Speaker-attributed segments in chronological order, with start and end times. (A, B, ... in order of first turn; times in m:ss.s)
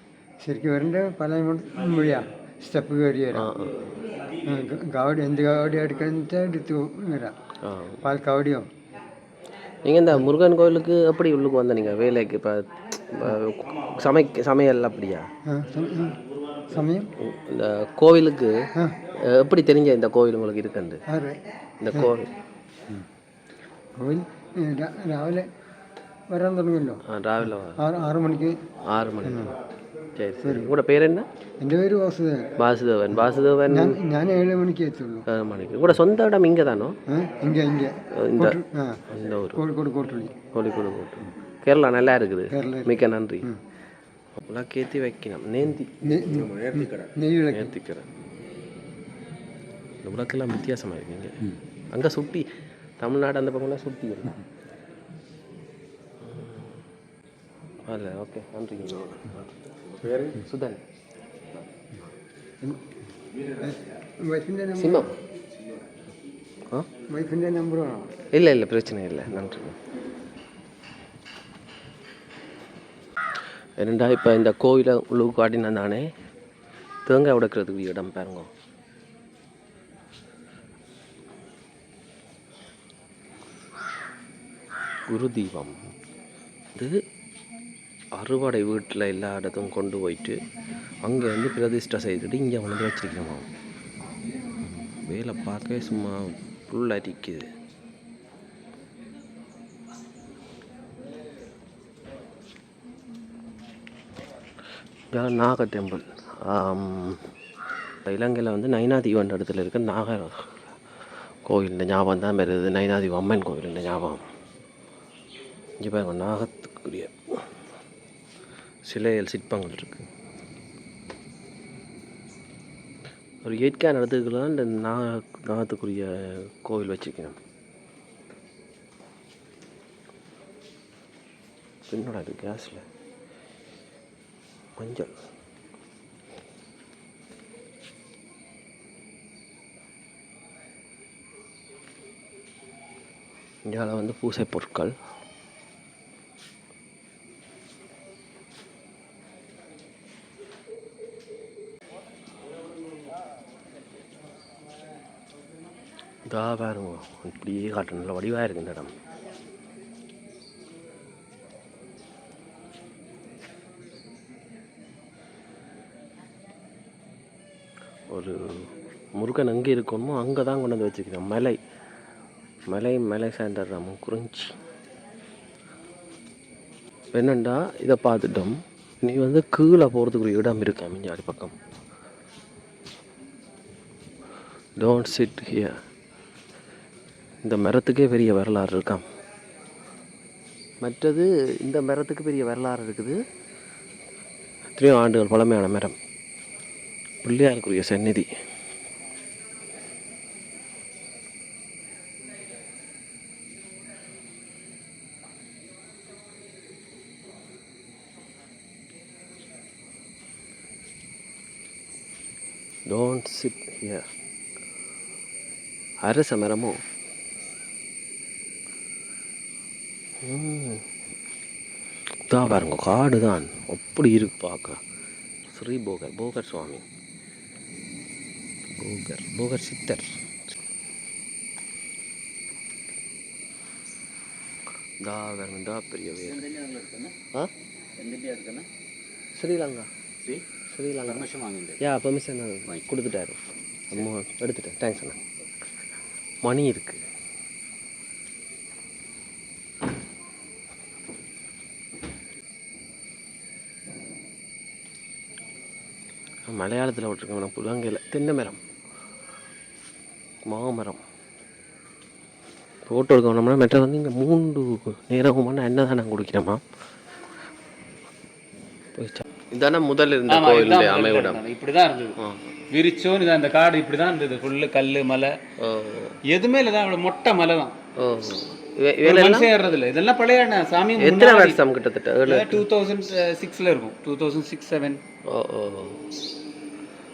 0:00.4-0:03.5 A
0:03.3-0:03.9 B
0:04.4-0:07.3 A
0:07.6-0:08.0 B
0:08.0-0:08.7 A
0:09.8-0:15.3 B
0:15.4-0:17.1 A
0:17.2-0:21.0 B
0:21.1-0:22.1 A
0:21.8-0:22.3 B
0:24.0-0:25.5 A
0:26.3-0:27.0 A
0:27.0-0:27.8 B
0:27.8-0:28.6 A
0:28.8-0:29.5 B
0:29.2-0:29.5 A
0:30.2-0:31.2 B
0:30.4-0:30.7 A
0:31.6-0:32.5 A
0:32.6-0:34.0 B
0:33.7-0:35.3 A
0:35.3-0:37.0 B
0:37.1-0:39.0 A
0:38.1-0:39.6 B
0:39.5-0:40.4 A
0:40.5-0:43.5 B
0:42.5-0:43.6 A
0:44.4-0:46.0 B
0:46.0-0:47.7 A
0:46.2-0:47.1 C
0:47.5-0:48.1 B
0:50.0-0:51.4 B
0:51.9-0:52.4 B
0:53.0-0:54.4 B
0:56.2-0:56.7 B
0:57.9-0:59.3 B
0:59.2-1:00.4 C
1:00.4-1:00.8 B
1:02.6-1:02.9 A
1:03.4-1:03.7 C
1:03.6-1:05.1 A
1:04.8-1:05.1 B
1:07.1-1:08.2 A
1:08.3-1:09.8 B
1:13.8-1:16.1 B
1:17.0-1:18.5 B
1:25.1-1:25.9 B
1:26.7-1:27.0 B
1:28.1-1:30.4 B
1:31.0-1:33.5 B
1:34.6-1:37.5 B
1:45.1-1:47.3 B
1:48.0-1:50.6 B
1:51.4-1:54.2 B
1:55.8-1:57.4 B
1:58.8-2:00.1 B
2:03.4-2:07.4 B
2:11.9-2:12.8 B
2:14.8-2:15.1 B
2:23.6-2:24.9 B
2:36.3-2:38.9 B
2:48.1-2:51.6 B
2:52.7-2:54.6 B
2:57.1-3:01.6 B
3:04.8-3:05.8 B
3:07.4-3:09.0 B
3:10.8-3:13.2 B
3:14.7-3:16.0 B
3:17.2-3:18.3 B
3:32.9-3:34.0 B
3:36.0-3:36.8 B
3:40.2-3:40.8 B
3:42.3-3:44.8 B
3:45.5-3:46.8 B
3:48.7-3:50.2 B
3:55.0-3:56.4 B
3:56.4-3:57.1 D
3:58.0-3:58.7 D
3:59.3-3:59.9 B
4:00.7-4:01.3 B
4:01.1-4:01.8 D
4:01.8-4:05.2 B
4:06.4-4:07.0 B
4:16.5-4:18.6 B
4:20.4-4:21.0 B
4:22.9-4:26.6 B
4:29.0-4:31.4 B
4:30.3-4:32.2 D
4:32.2-4:32.5 B
4:32.7-4:35.3 D
4:35.6-4:36.2 B
4:36.3-4:37.7 D
4:38.0-4:39.5 B
4:39.0-4:41.6 D
4:41.0-4:42.6 B
4:42.3-4:45.0 D
4:45.2-4:46.0 B